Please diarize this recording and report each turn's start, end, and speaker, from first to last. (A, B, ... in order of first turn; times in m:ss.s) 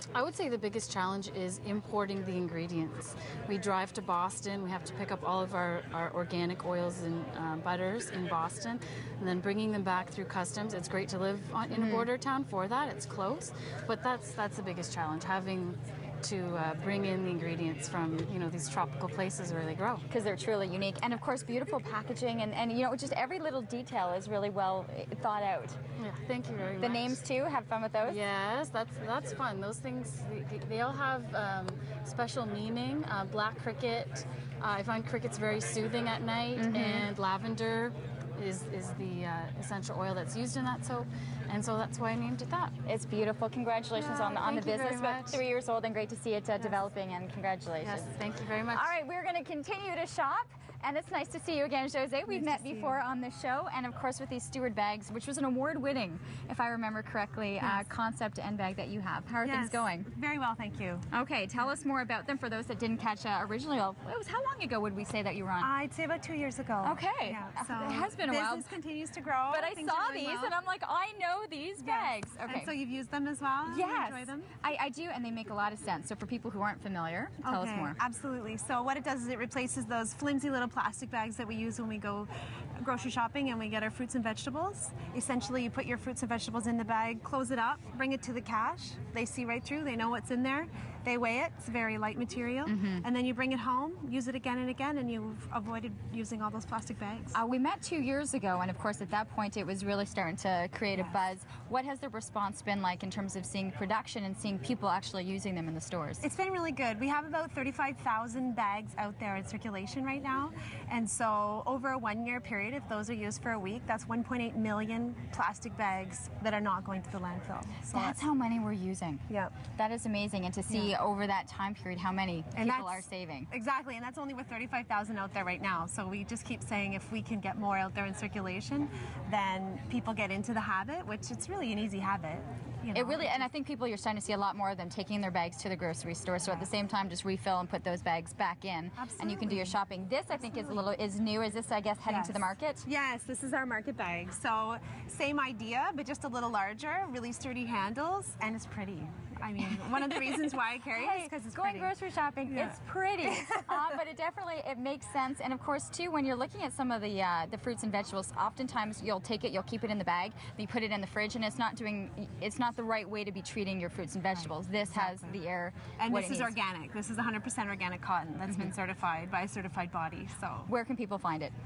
0:00.1-0:20.0 A
0:11.7-0:12.1 B
0:20.1-0:25.8 B
0:26.0-0:27.2 A
0:26.8-0:28.2 B
0:28.0-0:42.7 A
0:36.6-0:37.1 B
0:42.8-0:48.1 B
0:43.9-0:45.4 A
0:47.8-0:49.0 A
0:48.7-1:00.1 B
0:52.3-0:53.0 C
0:57.6-0:57.9 C
0:59.4-1:01.1 C
1:01.1-1:05.7 B
1:05.6-1:10.6 C
1:06.8-1:08.7 B
1:09.5-1:12.7 B
1:11.8-1:14.5 C
1:13.6-1:18.0 B
1:17.4-1:37.4 C
1:32.6-1:33.0 B
1:37.3-1:46.2 B
1:40.9-1:41.2 C
1:46.2-1:58.3 C
1:57.9-2:03.5 B
1:59.3-1:59.5 C
2:00.7-2:00.9 C
2:02.5-2:13.5 C
2:12.9-2:22.8 B
2:19.0-2:19.8 C
2:20.3-2:21.0 C
2:22.0-2:31.9 C
2:29.9-2:46.5 B
2:32.5-2:34.0 C
2:44.9-2:45.4 C
2:46.0-2:50.7 C
2:48.5-2:48.7 B
2:50.7-2:51.5 B